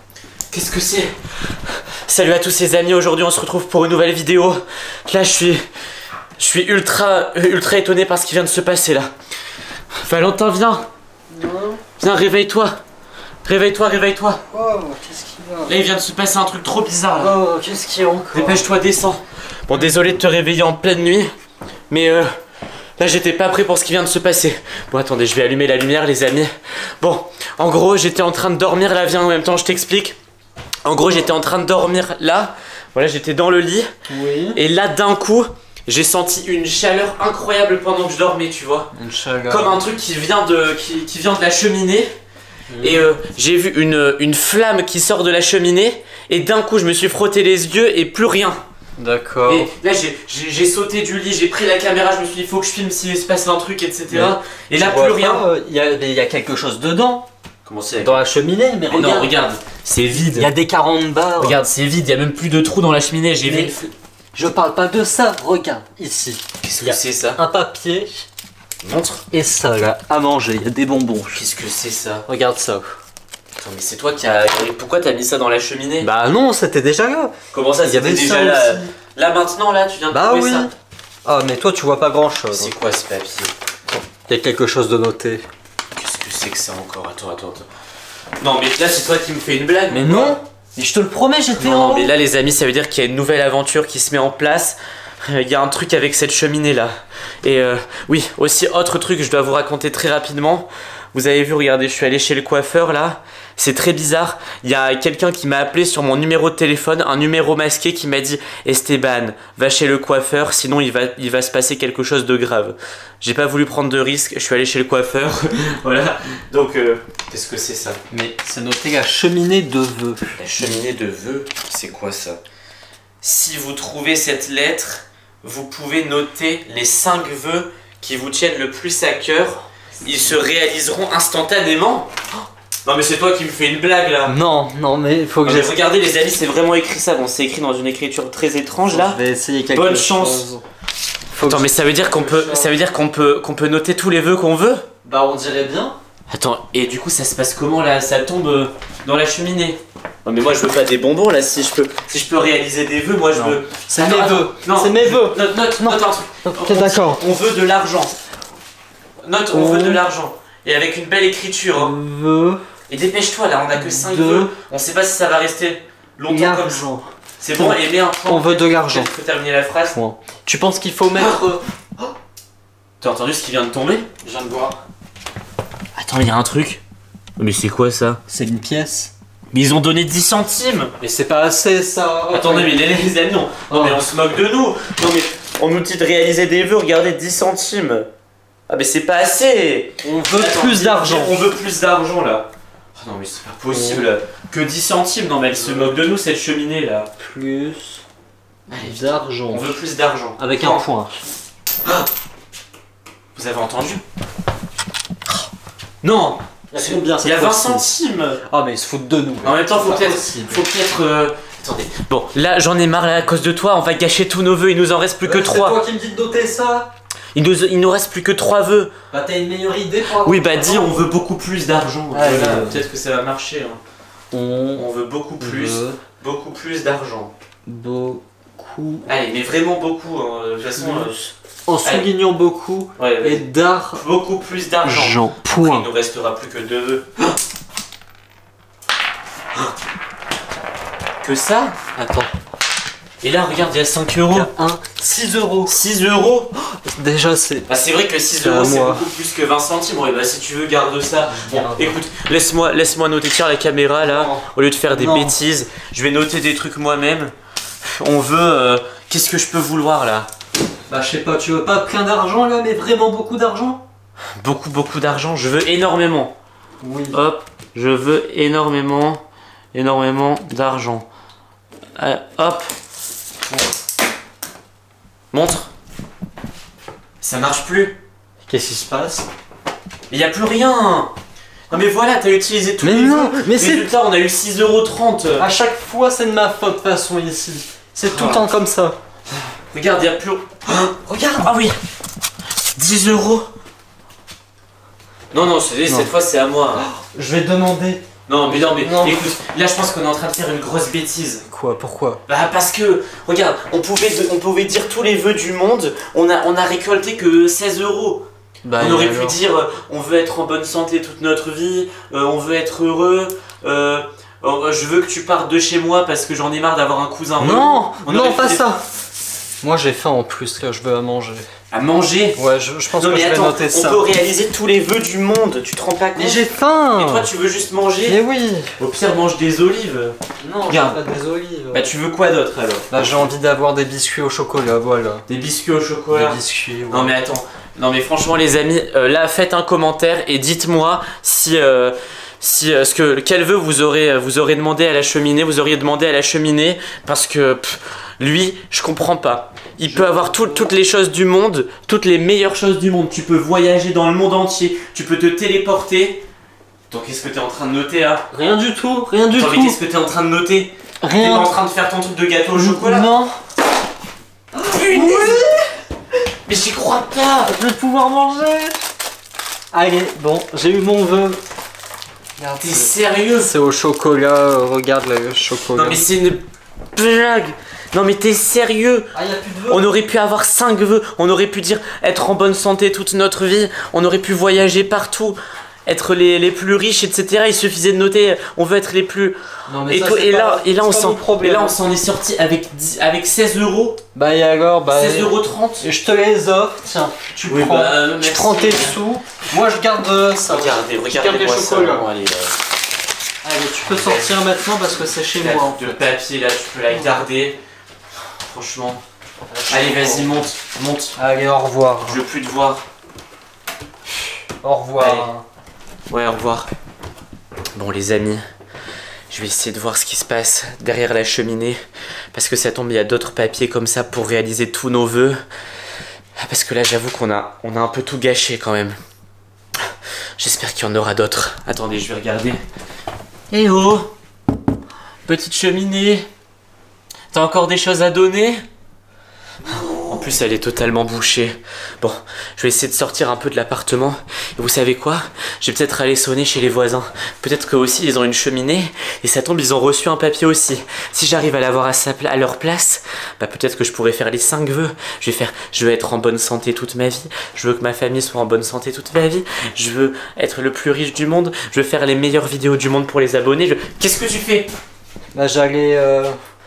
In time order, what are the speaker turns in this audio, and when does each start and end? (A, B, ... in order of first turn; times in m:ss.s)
0:00.5-0:01.1 A
0:02.0-0:05.6 A
0:06.4-0:09.1 A
0:10.0-0:10.9 A
0:11.3-0:11.8 B
0:12.0-0:12.8 A
0:13.4-0:14.4 A
0:14.5-0:15.7 B
0:15.6-0:17.3 A
0:17.1-0:18.6 B
0:18.3-0:21.3 A
0:21.9-0:22.3 A
0:23.0-0:30.2 A
0:30.8-0:33.9 A
0:34.1-0:34.6 B
0:34.5-0:38.9 A
0:38.9-0:39.8 B
0:39.5-0:42.1 A
0:42.7-0:43.1 B
0:42.8-0:48.6 A
0:49.0-0:49.7 B
0:49.5-0:55.4 A
0:54.1-0:57.3 B
0:57.6-0:58.2 A
0:58.0-0:59.3 B
0:58.9-1:00.5 A
1:00.1-1:01.6 B
1:01.4-1:03.8 A
1:03.4-1:08.3 B
1:06.6-1:07.4 A
1:08.8-1:09.2 A
1:09.3-1:11.5 B
1:11.3-1:12.2 A
1:12.3-1:12.8 B
1:13.6-1:16.1 A
1:16.0-1:18.9 B
1:17.5-1:20.7 A
1:20.1-1:20.7 B
1:21.2-1:22.7 B
1:22.5-1:23.5 A
1:24.1-1:25.4 B
1:26.0-1:27.7 A
1:28.4-1:30.4 A
1:29.9-1:32.1 B
1:31.6-1:58.0 A
1:58.1-2:00.4 B
2:00.4-2:02.4 A
2:03.2-2:12.1 A
2:12.8-2:14.3 A
2:14.2-2:15.7 B
2:15.4-2:19.2 A
2:18.9-2:20.6 B
2:19.7-2:20.5 A
2:21.3-2:22.8 B
2:21.4-2:24.8 A
2:25.0-2:26.0 B
2:26.3-2:38.1 A
2:33.3-2:37.2 B
2:39.2-2:42.0 A
2:39.5-2:40.0 B
2:41.7-2:42.6 B
2:42.9-2:46.8 A
2:43.7-2:44.5 B
2:46.3-2:49.1 B
2:47.4-2:50.0 A
2:49.9-2:52.1 B
2:53.0-2:54.1 A
2:54.2-2:54.8 B
2:56.0-2:56.8 A
2:57.4-2:58.2 A
2:58.3-2:59.1 B
2:59.5-3:00.9 A
3:01.0-3:02.8 B
3:02.3-3:08.0 A
3:03.7-3:04.0 B
3:08.7-3:17.1 A
3:10.0-3:11.5 B
3:13.7-3:14.0 B
3:17.2-3:18.0 B
3:18.7-3:20.8 A
3:18.8-3:19.7 B
3:20.4-3:21.2 B
3:23.4-3:24.0 A
3:26.0-3:28.4 A
3:26.7-3:27.9 B
3:28.5-3:30.6 B
3:29.4-3:35.8 A
3:35.2-3:36.9 B
3:37.3-3:38.9 A
3:39.1-3:41.0 B
3:40.1-3:43.8 A
3:42.1-3:42.8 B
3:44.3-3:44.9 B
3:44.8-3:47.3 A
3:45.4-3:46.0 B
3:47.6-3:49.1 B
3:49.0-3:51.2 A
3:50.8-3:54.0 B
3:53.0-3:57.3 A
3:54.8-3:55.9 B
4:01.2-4:01.8 A
4:01.9-4:02.3 B
4:03.2-4:04.5 A
4:04.3-4:05.8 B
4:05.7-4:06.5 A
4:06.7-4:07.7 B
4:07.7-4:17.3 A
4:08.4-4:09.0 B
4:11.2-4:12.0 B
4:14.0-4:15.4 B
4:17.9-4:20.3 A
4:20.9-4:23.8 B
4:24.4-4:26.3 A
4:26.8-4:27.2 B
4:27.1-4:29.2 A
4:29.7-4:31.0 A
4:32.0-4:32.7 A
4:35.3-4:35.7 A
4:37.2-4:38.0 A
4:38.5-4:39.3 B
4:40.1-4:41.1 A
4:41.7-4:45.5 A
4:42.8-4:43.9 B
4:45.4-4:49.0 B
4:48.0-4:48.5 A
4:49.6-4:51.8 A
4:51.1-4:51.5 B
4:52.7-4:53.5 A
4:55.3-4:56.8 A
4:56.8-4:59.3 B
4:58.3-5:01.4 A
5:01.5-5:02.2 B
5:02.3-5:08.2 A
5:08.6-5:09.4 B
5:08.8-5:18.6 A
5:17.4-5:18.8 B
5:19.6-5:21.5 B
5:21.7-5:22.4 A
5:22.4-5:24.0 B
5:22.9-5:26.4 A
5:26.2-5:27.3 B
5:27.0-5:28.2 A
5:28.0-5:28.7 B
5:28.8-5:30.1 A
5:30.4-5:31.9 B
5:30.7-5:31.0 A
5:31.7-5:33.3 A
5:32.9-5:35.2 B
5:35.3-5:36.4 A
5:36.1-5:37.2 B
5:36.9-5:56.2 A
5:49.8-5:50.7 B
5:56.9-5:58.3 A
5:58.3-5:59.8 B
5:59.3-6:03.1 A
6:01.0-6:01.5 B
6:02.5-6:03.4 B
6:04.6-6:05.6 B
6:04.6-6:05.4 A
6:06.5-6:07.5 A
6:07.5-6:08.8 B
6:09.7-6:11.4 B
6:12.4-6:16.0 B
6:12.6-6:13.5 A
6:15.7-6:16.4 A
6:16.9-6:19.1 A
6:19.1-6:19.8 B
6:19.7-6:34.0 A
6:29.7-6:31.8 B
6:34.1-6:42.1 B
6:34.9-6:35.8 A
6:37.4-6:39.0 A
6:40.5-6:42.6 A
6:43.4-6:46.1 B
6:43.9-6:44.4 A
6:45.3-6:47.6 A
6:48.4-6:49.0 A
6:49.5-6:50.5 B
6:49.7-6:51.2 A
6:51.2-6:52.2 B
6:52.0-6:52.8 A
6:54.6-6:55.4 B
6:55.0-6:55.3 A
6:56.1-6:56.7 A
6:57.8-6:58.4 A
6:59.3-7:01.8 A
7:02.3-7:05.4 A
7:06.4-7:09.0 A
7:10.4-7:12.6 A
7:13.5-7:14.1 A
7:15.2-7:16.3 A
7:17.3-7:18.6 A
7:19.7-7:44.7 A
7:45.3-7:46.3 B